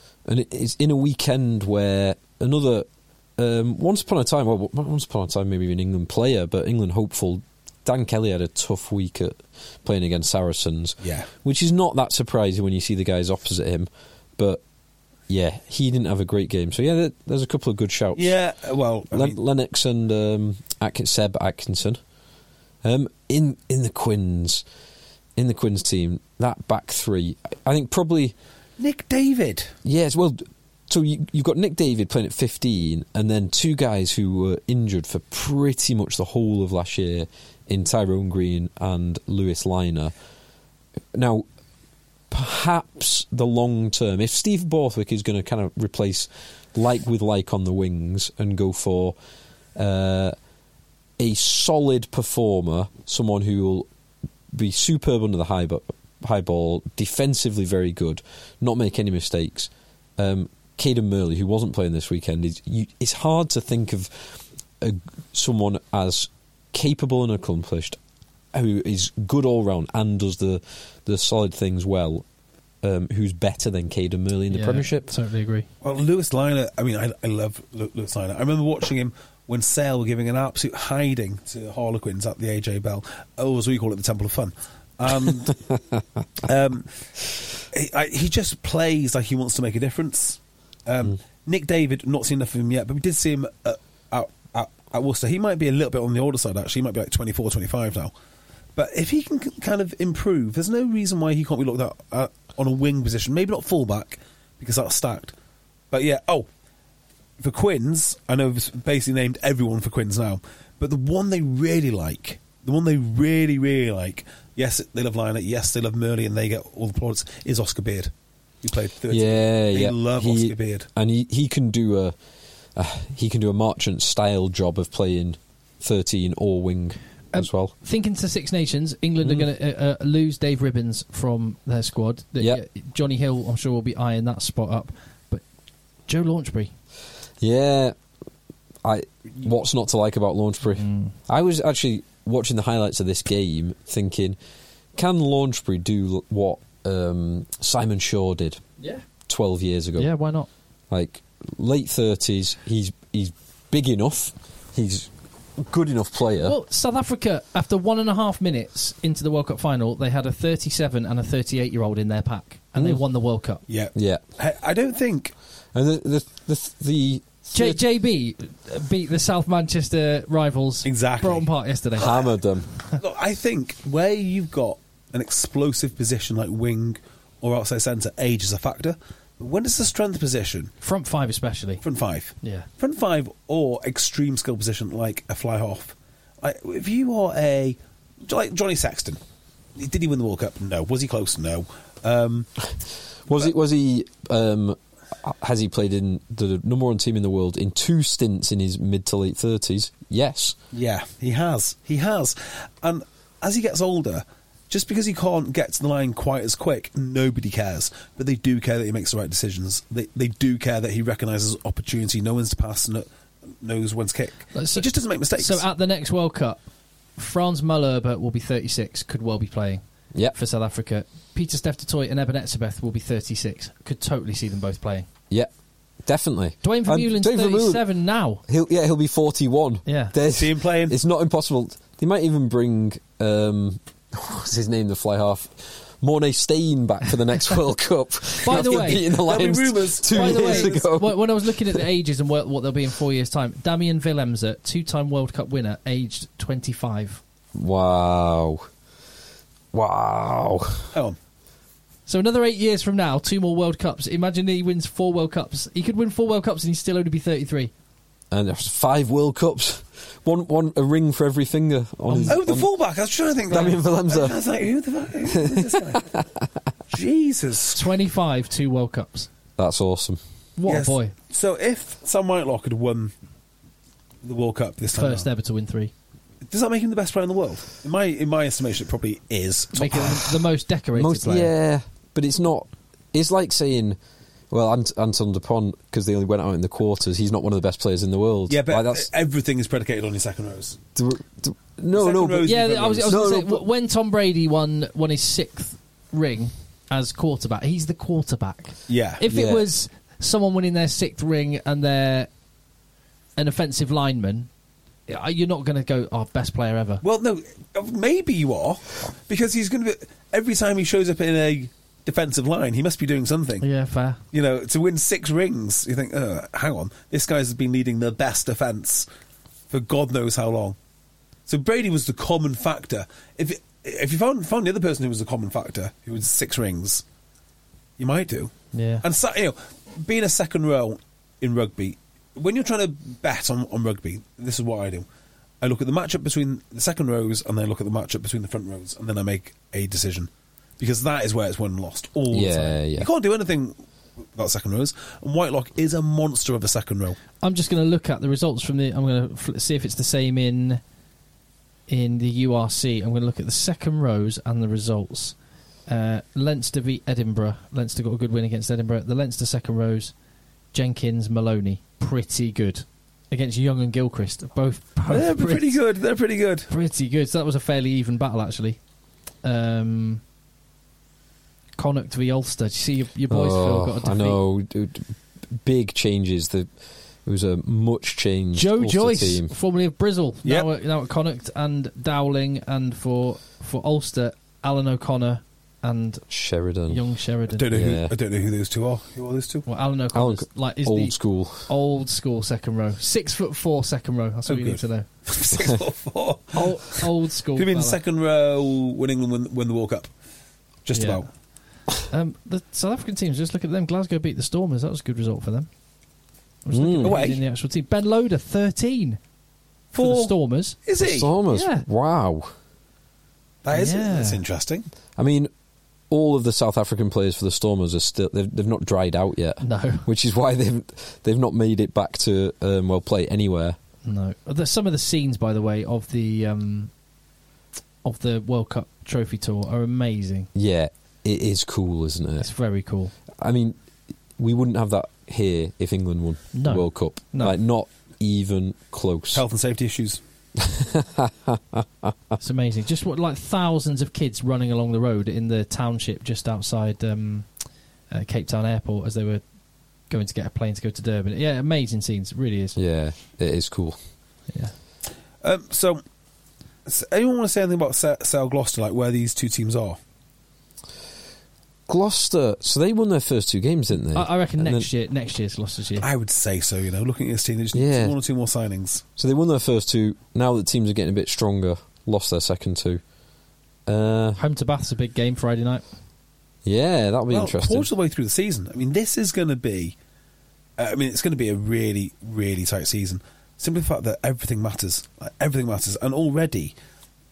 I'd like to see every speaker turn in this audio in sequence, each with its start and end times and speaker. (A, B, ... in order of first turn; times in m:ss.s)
0:00.2-0:14.6 A
0:11.0-0:11.3 B
0:15.3-0:18.3 A
0:18.1-0:19.4 B
0:19.1-0:22.0 A
0:22.8-0:24.6 A
0:25.4-0:28.4 A
0:28.8-0:29.7 B
0:29.8-0:40.1 A
0:41.1-0:41.4 A
0:42.3-0:49.2 A
0:49.8-0:50.4 A
0:51.2-0:53.9 A
0:54.5-1:08.0 A
1:08.5-1:12.2 A
1:12.8-1:15.1 A
1:14.5-1:15.7 C
1:15.8-1:25.6 B
1:26.4-1:26.9 B
1:27.7-1:38.1 B
1:38.8-1:45.3 B
1:45.9-1:46.5 B
1:47.4-1:58.1 B
1:58.6-2:00.9 B
1:59.1-2:02.2 A
2:02.7-2:07.7 A
2:07.3-2:15.4 C
2:09.2-2:09.5 A
2:16.1-2:16.7 C
2:17.4-2:18.0 A
2:18.8-2:24.4 A
2:20.7-2:21.1 C
2:24.9-2:28.6 A
2:29.3-2:30.1 A
2:30.0-2:30.5 C
2:30.9-2:36.5 A
2:36.4-2:43.6 C
2:42.8-2:43.0 A
2:43.7-2:45.3 B
2:43.9-2:44.2 A
2:45.7-2:47.8 A
2:47.5-2:52.1 C
2:50.8-2:51.5 B
2:52.0-2:52.7 A
2:53.0-3:00.7 B
3:00.8-3:01.8 C
3:01.8-3:09.2 B
3:02.4-3:02.7 C
3:09.8-3:12.5 B
3:13.3-3:20.6 A
3:13.3-3:13.5 B
3:20.7-3:33.1 B
3:33.6-3:35.6 B
3:34.5-3:36.6 C
3:37.2-3:45.1 C
3:46.0-3:47.9 A
3:46.6-3:48.4 C
3:48.4-4:01.8 A
3:49.8-3:50.1 C
3:50.3-3:51.0 B
3:58.4-3:59.0 C
3:58.5-4:00.8 B
4:00.1-4:07.2 C
4:07.5-4:08.7 A
4:09.7-4:10.9 A
4:12.1-4:17.7 C
4:18.3-4:22.7 A
4:22.1-4:22.4 C
4:22.2-4:26.2 B
4:23.5-4:24.4 A
4:25.3-4:26.4 A
4:26.9-4:27.9 B
4:27.7-4:29.3 C
4:29.6-4:30.2 A
4:30.6-4:31.1 C
4:30.7-4:33.1 B
4:34.2-4:35.3 B
4:34.9-4:35.9 C
4:36.5-4:40.2 B
4:39.7-4:41.5 C
4:40.9-4:44.0 A
4:44.5-4:49.1 A
4:48.5-4:50.8 B
4:51.0-4:53.6 A
4:51.9-4:53.2 B
4:52.4-5:02.3 C
4:58.9-4:59.2 B
4:59.2-4:59.6 A
5:03.4-5:04.5 C
5:05.1-5:07.0 C
5:07.0-5:13.6 B
5:13.6-5:14.2 C
5:14.3-5:19.0 B
5:19.7-5:20.8 B
5:21.5-5:27.0 B
5:28.0-5:35.0 B
5:28.7-5:29.0 C
5:35.6-5:47.2 B
5:42.3-5:43.1 A
5:47.4-5:50.8 C
5:51.9-5:55.4 C
5:55.9-6:00.1 C
6:00.7-6:05.8 C
6:05.1-6:06.7 B
6:06.7-6:08.8 C
6:09.4-6:10.2 C
6:11.8-6:14.4 C
6:13.3-6:16.7 A
6:17.2-6:19.5 A
6:18.5-6:26.2 C
6:26.3-6:27.0 A
6:26.9-6:27.7 C
6:27.5-6:29.7 B
6:27.7-6:28.1 A
6:29.6-6:35.0 C
6:30.1-6:31.7 A
6:34.5-6:37.0 B
6:36.5-6:38.0 C
6:37.5-6:40.1 B
6:40.8-6:41.3 B
6:40.9-6:41.3 C
6:42.1-6:45.7 C
6:46.6-6:49.2 C
6:46.7-6:47.2 A
6:47.0-6:47.4 B
6:49.9-6:50.8 C
6:49.9-6:51.3 B
6:51.0-6:52.5 A
6:51.5-6:51.8 C
6:53.6-6:54.8 B
6:53.7-6:54.4 C
6:55.2-6:55.5 A
6:56.1-7:03.8 A
6:59.6-7:00.0 C
7:04.0-7:06.9 C
7:08.0-7:10.5 C
7:10.5-7:12.5 A
7:12.4-7:13.1 C
7:13.4-7:13.8 A
7:14.4-7:19.4 A
7:16.5-7:17.6 C
7:19.3-7:20.2 B
7:20.6-7:22.1 A
7:22.4-7:27.5 C
7:28.1-7:29.4 C
7:30.1-7:32.8 C
7:32.8-7:34.0 A
7:35.4-7:36.0 B
7:36.8-7:40.0 B
7:41.9-7:44.9 A
7:44.1-7:46.0 C
7:46.0-7:49.0 B
7:47.7-7:48.1 A
7:49.2-7:53.0 A
7:53.8-7:54.4 A
7:54.4-7:55.8 C
7:56.6-7:57.9 A
7:57.3-7:59.9 B
8:00.8-8:06.7 B